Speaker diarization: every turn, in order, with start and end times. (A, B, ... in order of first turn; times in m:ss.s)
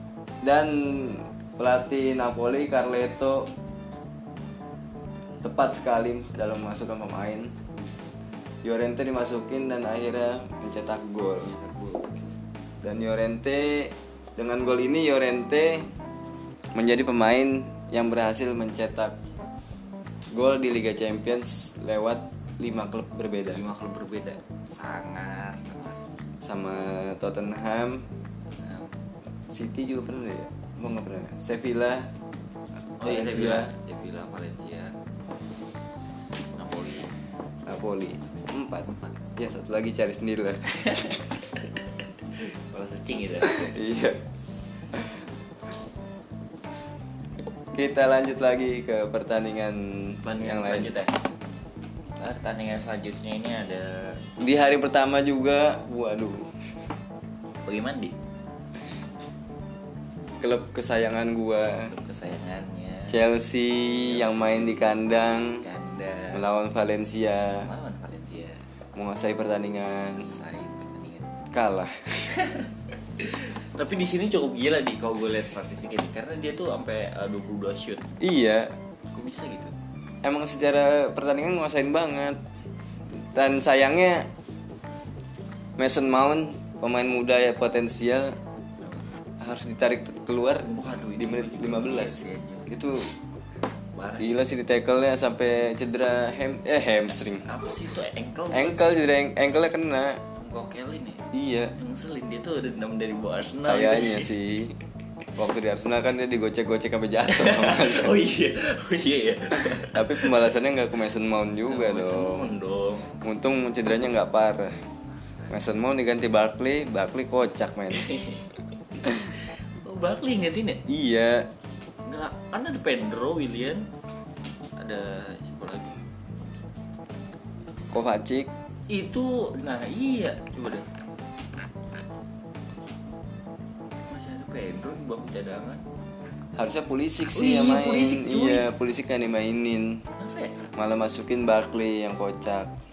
0:00.4-0:03.5 A
0:05.4-0:07.6 A
0:08.6-0:11.5 A
0:11.4-0:12.4 B
0:12.8-0:15.9 A
0:16.7-0:19.1 A
0:20.3-0:23.6 A
0:23.5-0:26.0 B
0:26.4-0:28.0 A
0:28.6-0:28.9 B
0:29.5-0:32.1 A
0:32.8-0:34.9 B
0:33.0-0:33.7 A
0:36.5-0:37.2 B
0:37.7-0:40.6 A
0:40.7-0:41.3 B
0:42.3-0:43.8 B
0:43.4-0:44.2 A
0:44.9-0:45.2 A
0:47.7-0:50.9 A
0:50.2-0:51.2 B
0:52.2-0:54.2 B
0:54.4-0:56.8 A
0:57.6-0:58.2 B
1:00.4-1:01.9 A
1:01.7-1:03.2 B
1:03.1-1:05.6 A
1:04.0-1:06.4 B
1:06.3-1:07.7 A
1:07.6-1:08.7 B
1:08.9-1:10.3 A
1:10.2-1:11.4 B
1:11.5-1:12.4 A
1:12.3-1:18.1 B
1:18.2-1:18.7 A
1:19.1-1:19.7 B
1:20.2-1:22.4 A
1:23.1-1:24.3 A
1:25.8-1:28.4 A
1:28.8-1:29.1 B
1:29.4-1:33.1 A
1:30.6-1:32.7 B
1:33.9-1:34.3 B
1:34.2-1:37.5 A
1:37.3-1:39.0 B
1:38.5-1:40.2 A
1:40.4-1:41.2 B
1:41.3-1:41.7 A
1:41.8-1:44.3 B
1:43.7-1:44.8 A
1:45.4-1:48.2 A
1:47.3-1:50.5 B
1:49.5-1:52.5 A
1:51.6-1:53.1 B
1:53.2-1:54.8 A
1:55.2-1:55.7 B
1:55.5-1:58.0 A
1:57.9-2:00.8 B
1:59.0-1:59.3 A
2:00.8-2:01.5 A
2:02.0-2:03.9 B
2:04.8-2:06.0 B
2:07.9-2:08.5 A
2:08.9-2:10.9 B
2:14.1-2:15.8 B
2:16.6-2:20.0 A
2:17.3-2:18.6 B
2:20.1-2:20.7 B
2:20.8-2:22.7 A